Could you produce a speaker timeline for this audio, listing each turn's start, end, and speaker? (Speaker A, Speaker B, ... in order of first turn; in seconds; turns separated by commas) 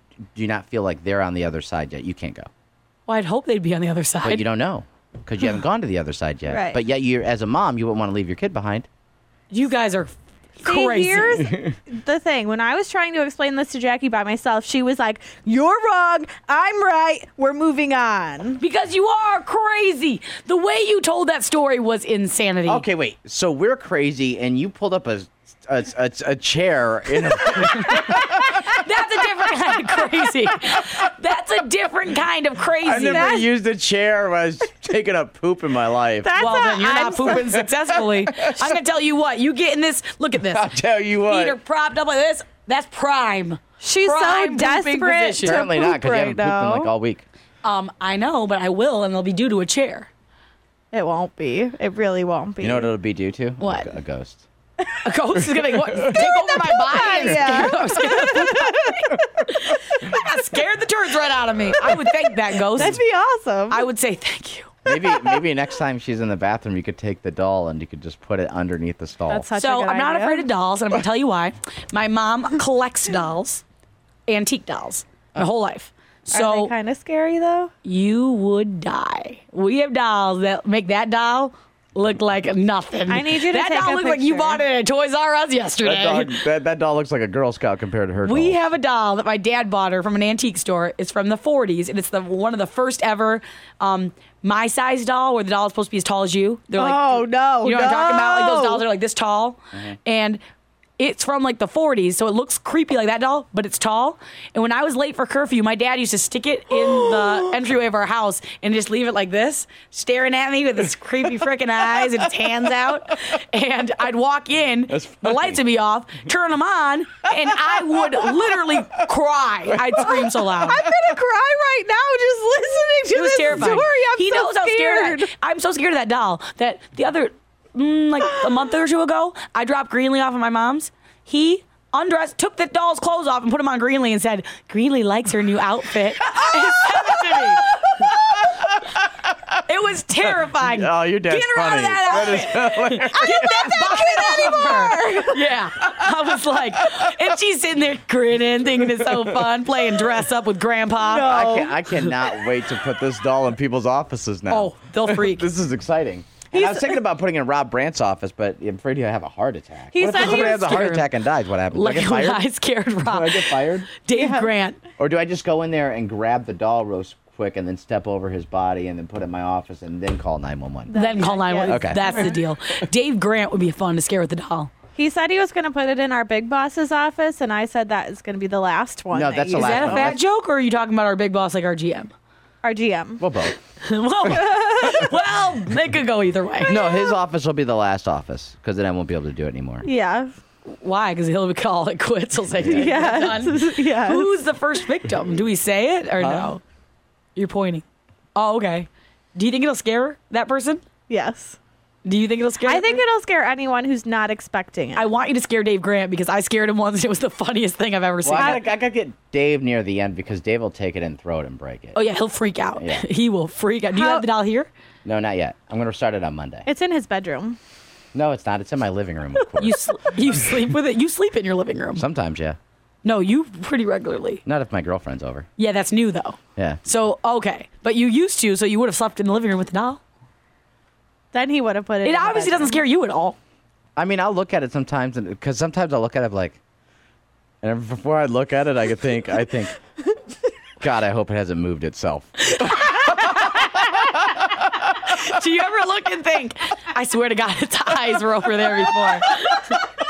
Speaker A: 0.3-2.5, Speaker B: 3.1-4.4, Speaker A: 4.2-8.9, Speaker C: 6.5-6.8, Speaker B: 9.5-11.5, Speaker C: 10.6-18.6, Speaker B: 18.6-22.8, Speaker A: 22.7-28.6, Speaker B: 27.6-33.4, Speaker A: 32.8-36.6, Speaker C: 33.0-33.5, Speaker C: 36.2-37.6, Speaker B: 36.4-45.6, Speaker A: 37.3-38.8, Speaker A: 40.4-41.6, Speaker C: 43.8-46.9, Speaker A: 45.4-47.2, Speaker B: 47.6-50.1, Speaker C: 50.9-52.9, Speaker A: 52.6-54.5, Speaker B: 53.6-53.9, Speaker B: 55.0-63.0, Speaker C: 56.8-59.1, Speaker A: 57.2-57.6, Speaker C: 62.7-63.9, Speaker B: 63.7-64.7, Speaker A: 64.9-69.5, Speaker C: 64.9-65.3, Speaker C: 69.3-70.5, Speaker B: 69.6-73.6, Speaker B: 74.3-76.7, Speaker C: 76.3-77.7, Speaker B: 77.8-86.4, Speaker C: 83.1-84.6, Speaker A: 85.8-88.6, Speaker B: 88.2-100.4, Speaker C: 96.8-98.8, Speaker B: 101.0-120.8, Speaker A: 114.9-115.6, Speaker A: 117.3-118.9, Speaker A: 119.7-120.3, Speaker C: 120.6-125.3, Speaker B: 123.1-137.8, Speaker A: 138.1-139.6, Speaker B: 139.7-151.4, Speaker A: 140.3-143.7, Speaker C: 143.2-145.4, Speaker A: 145.9-147.3, Speaker A: 148.8-150.0, Speaker C: 151.0-151.7, Speaker A: 151.2-162.4, Speaker B: 154.5-155.5, Speaker C: 156.5-156.9, Speaker C: 159.9-160.9, Speaker B: 160.1-161.1, Speaker B: 161.7-164.8, Speaker A: 163.0-163.9, Speaker C: 164.1-164.5, Speaker A: 165.0-170.9, Speaker C: 170.9-172.4, Speaker B: 170.9-174.7, Speaker A: 171.7-172.3, Speaker C: 175.0-180.1, Speaker A: 179.1-180.2, Speaker B: 179.5-182.1, Speaker C: 182.6-183.2, Speaker A: 183.2-183.6, Speaker B: 183.8-186.8, Speaker C: 184.3-185.1, Speaker A: 186.7-189.9, Speaker C: 186.7-187.0, Speaker C: 189.8-190.3, Speaker B: 190.7-196.6, Speaker A: 192.5-193.3, Speaker C: 192.7-194.3, Speaker A: 196.2-196.5, Speaker B: 197.4-197.8, Speaker B: 198.3-200.8, Speaker C: 201.1-201.6, Speaker B: 202.1-203.0, Speaker C: 202.6-205.1, Speaker B: 204.9-208.6, Speaker A: 208.2-212.0, Speaker C: 208.3-208.6, Speaker B: 211.9-214.7, Speaker A: 212.8-213.1, Speaker C: 213.9-214.3, Speaker A: 215.1-216.7, Speaker C: 216.7-217.6, Speaker A: 218.1-220.3, Speaker B: 219.6-222.0, Speaker A: 222.0-222.6, Speaker B: 223.0-224.4, Speaker A: 224.4-225.5, Speaker B: 225.6-230.0, Speaker C: 231.3-232.8, Speaker B: 232.0-233.4, Speaker A: 234.0-236.6, Speaker A: 237.6-239.8, Speaker A: 240.8-244.4, Speaker B: 245.0-249.8